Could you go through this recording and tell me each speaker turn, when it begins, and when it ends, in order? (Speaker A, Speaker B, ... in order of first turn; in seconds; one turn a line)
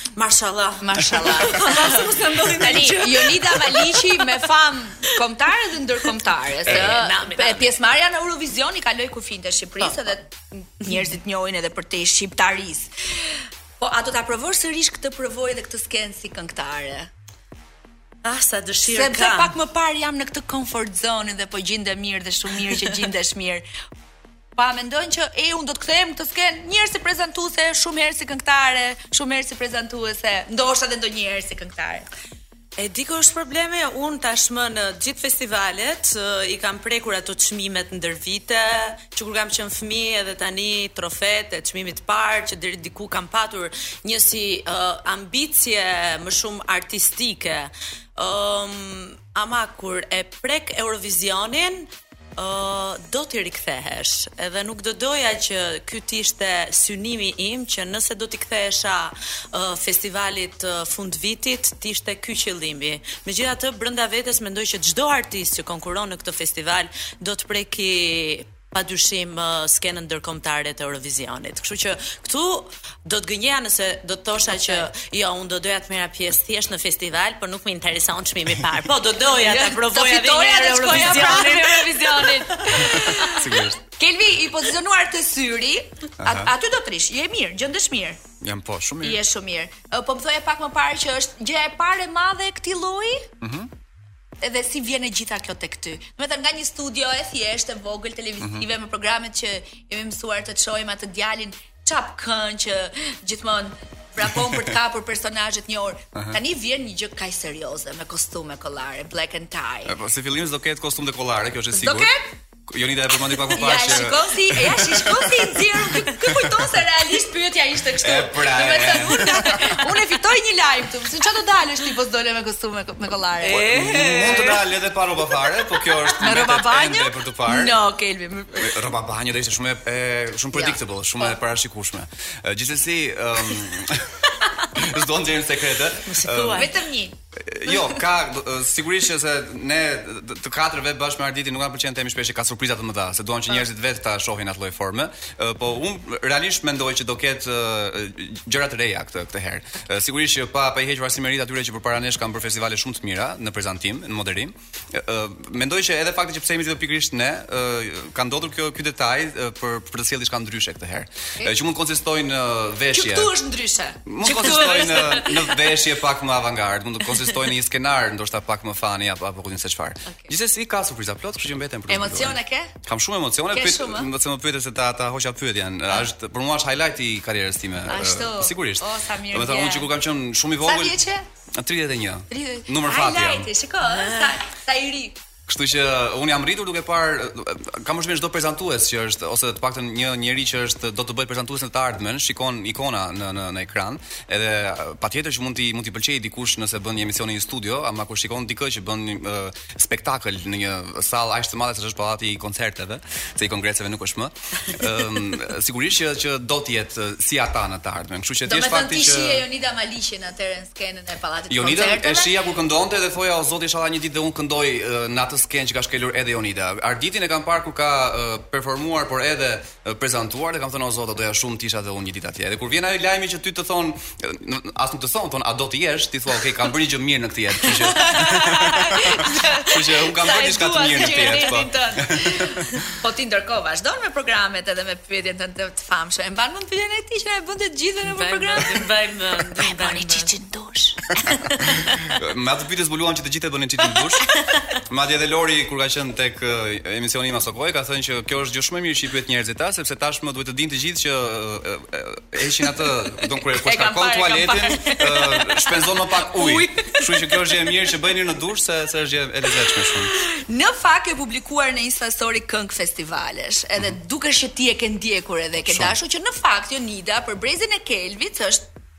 Speaker A: 0.1-4.4
Speaker B: 0.8-12.9
Speaker A: 6.6-7.8
Speaker C: 6.7-6.9
Speaker A: 9.8-10.1
Speaker B: 13.8-17.1
Speaker A: 18.2-19.6
Speaker B: 18.9-23.7
Speaker A: 22.7-22.9
Speaker B: 24.6-32.1
Speaker A: 32.8-83.1
Speaker B: 79.3-88.2
Speaker C: 82.8-83.8
Speaker C: 86.2-86.5
Speaker C: 88.4-89.2
Speaker B: 89.0-93.3
Speaker C: 93.4-93.7
Speaker B: 94.4-109.9
Speaker C: 98.4-98.7
Speaker C: 109.9-112.1
Speaker B: 111.7-112.2
Speaker C: 112.7-116.7
Speaker B: 113.5-123.7
Speaker C: 118.0-119.9
Speaker A: 123.4-124.7
Speaker C: 123.5-127.8
Speaker B: 126.2-128.8
Speaker C: 128.6-136.7
Speaker B: 130.5-131.4
Speaker A: 136.1-136.7
Speaker B: 136.5-137.2
Speaker C: 137.3-163.3
Speaker B: 162.9-165.7
Speaker C: 164.1-181.0
Speaker B: 171.9-172.7
Speaker B: 173.5-174.1
Speaker B: 177.9-179.9
Speaker B: 180.6-181.2
Speaker C: 181.6-183.5
Speaker B: 182.3-185.2
Speaker A: 183.8-184.4
Speaker C: 185.5-209.4
Speaker B: 208.5-212.4
Speaker C: 211.5-232.6
Speaker B: 227.9-241.4
Speaker A: 238.0-240.3
Speaker C: 242.0-260.1
Speaker A: 244.4-244.6
Speaker B: 253.5-257.8
Speaker B: 259.8-268.6
Speaker C: 265.7-265.9